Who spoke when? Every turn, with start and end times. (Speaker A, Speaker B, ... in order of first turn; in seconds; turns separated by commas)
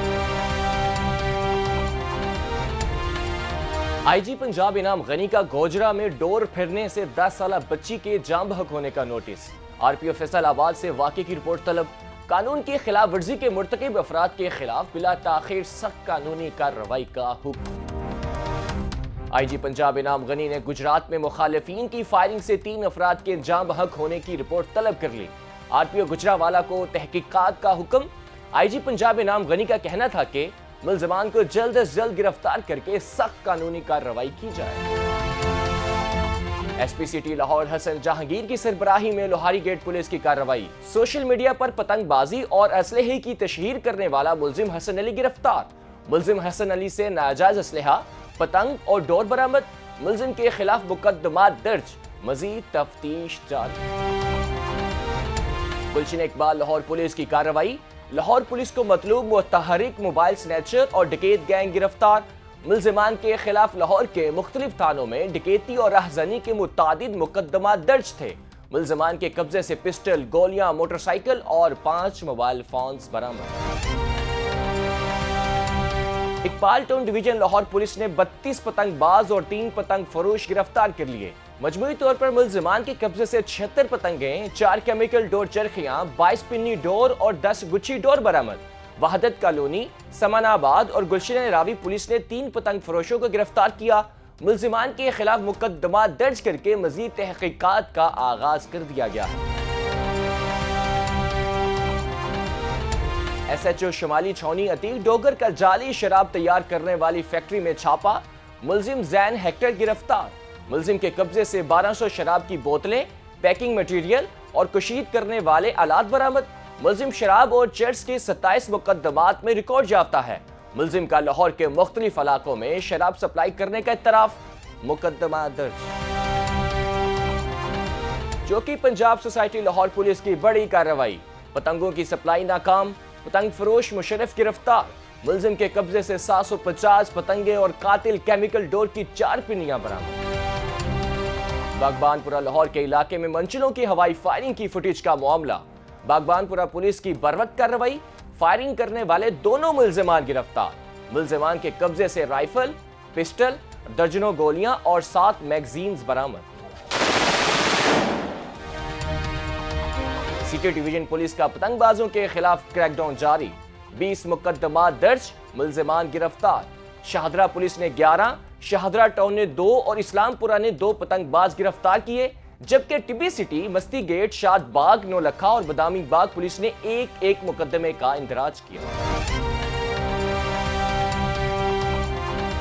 Speaker A: 4.0-17.7, Speaker A: 19.3-34.9, Speaker A: 36.8-53.8, Speaker A: 55.9-73.6, Speaker A: 76.4-99.4, Speaker A: 103.5-125.9, Speaker A: 128.4-140.2, Speaker A: 141.7-156.5, Speaker A: 160.4-178.9